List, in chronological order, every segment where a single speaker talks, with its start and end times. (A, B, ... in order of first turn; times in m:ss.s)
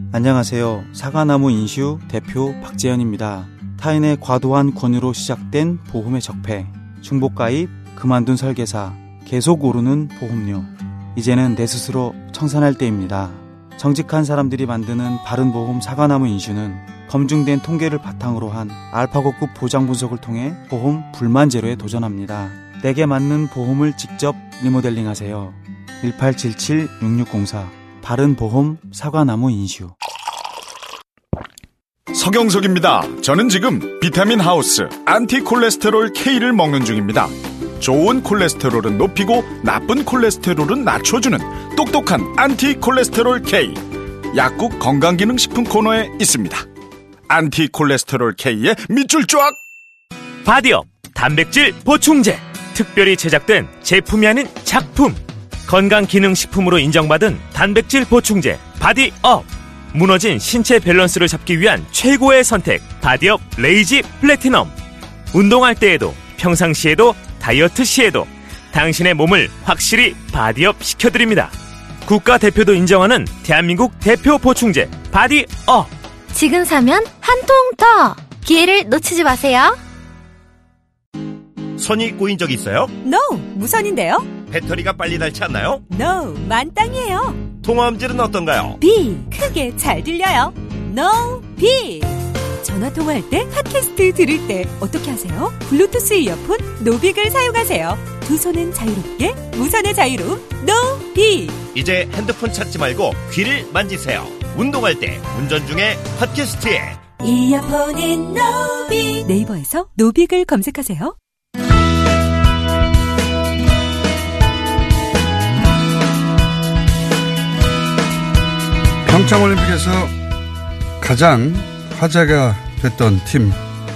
0:00.1-0:29.9 A
0:32.1-0:46.7 B
0:47.3-0:49.6 B
0:50.4-1:04.7 C
1:05.3-1:11.5 C
1:12.1-1:15.9 C
1:16.3-1:19.8 D
1:21.8-1:22.9 E
1:23.0-1:24.3 F
1:24.5-1:25.8 E
1:25.9-1:27.5 F
1:27.6-1:28.8 E
1:28.8-1:41.6 F
1:41.7-1:47.0 E
1:47.2-1:51.2 F
1:59.0-2:00.2 G
2:01.0-2:03.6 G